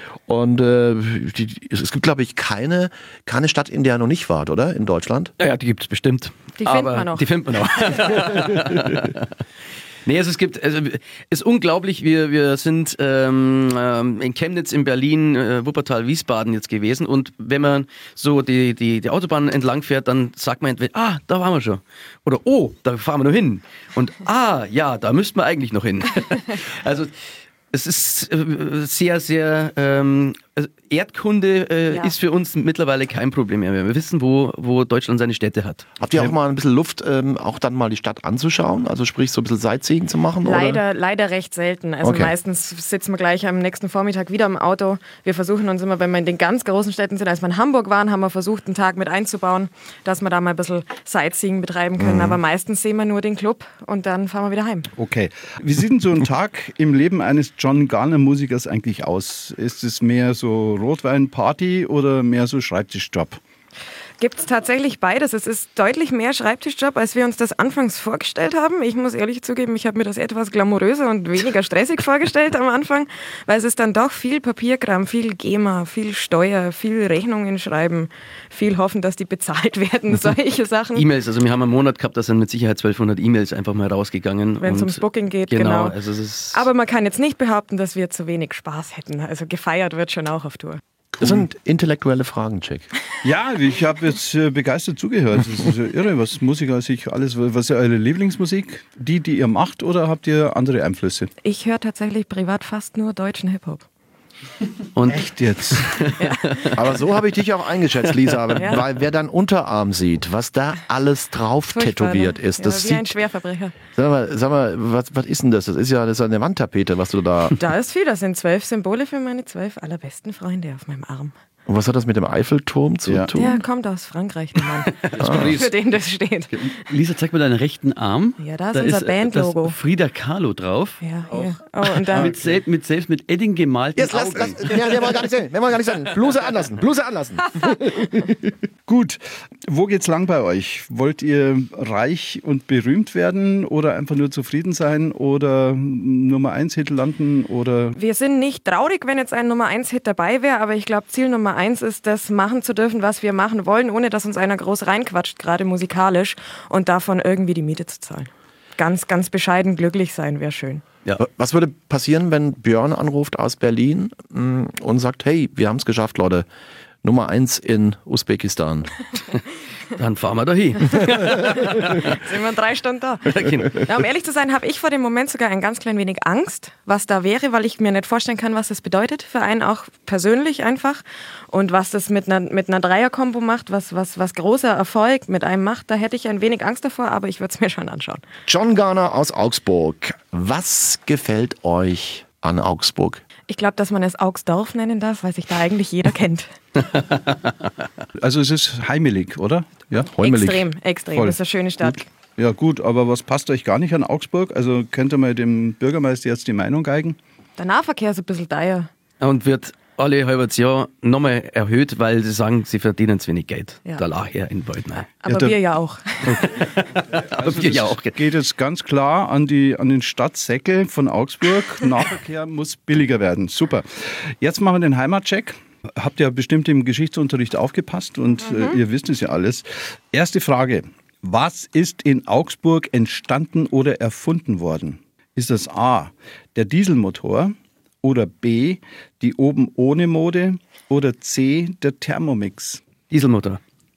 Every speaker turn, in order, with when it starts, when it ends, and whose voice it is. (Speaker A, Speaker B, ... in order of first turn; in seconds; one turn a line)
Speaker A: 0.3-5.3
Speaker B: 5.4-9.3
Speaker C: 6.6-7.3
Speaker B: 10.1-27.1
Speaker B: 27.7-35.9
Speaker A: 36.0-40.8
Speaker C: 40.5-54.9
Speaker A: 42.0-42.3
Speaker A: 52.0-52.4
Speaker D: 55.0-63.4
Speaker C: 64.2-81.0
Speaker B: 81.0-86.6
Speaker C: 84.6-86.0
Speaker C: 86.5-90.8
Speaker A: 91.2-92.9
Speaker D: 93.2-101.3
Speaker C: 101.4-103.9
Speaker B: 105.0-106.8
Speaker D: 105.1-106.0
Speaker A: 106.7-113.2
Speaker C: 108.5-108.8
Speaker C: 111.7-113.8
Speaker A: 113.9-117.6
Speaker C: 117.6-121.3
Speaker A: 121.7-123.6
Speaker C: 123.3-126.7
Speaker A: 125.2-125.6
Speaker E: 125.2-125.7
Speaker E: 126.7-135.3
Speaker C: 128.4-129.8
Speaker C: 131.0-132.4
Speaker A: 133.9-138.6
Speaker D: 138.9-148.0
Speaker C: 147.9-160.8
Speaker A: 161.2-166.5
Speaker A: 167.0-168.9
Speaker B: 170.0-172.2
Speaker C: 172.0-188.2
Speaker B: 173.3-173.9
Speaker A: 188.5-193.2
Speaker C: 193.5-196.5
Speaker D: 198.2-200.1
Speaker A: 200.1-200.7
Speaker C: 200.2-202.1
Speaker D: 201.1-207.2
Speaker C: 207.6-208.9
Speaker B: 209.2-215.1
Speaker C: 215.2-216.7
Speaker D: 215.3-215.6
Speaker B: 216.3-218.2
Speaker D: 217.2-242.8
Speaker B: 243.1-243.6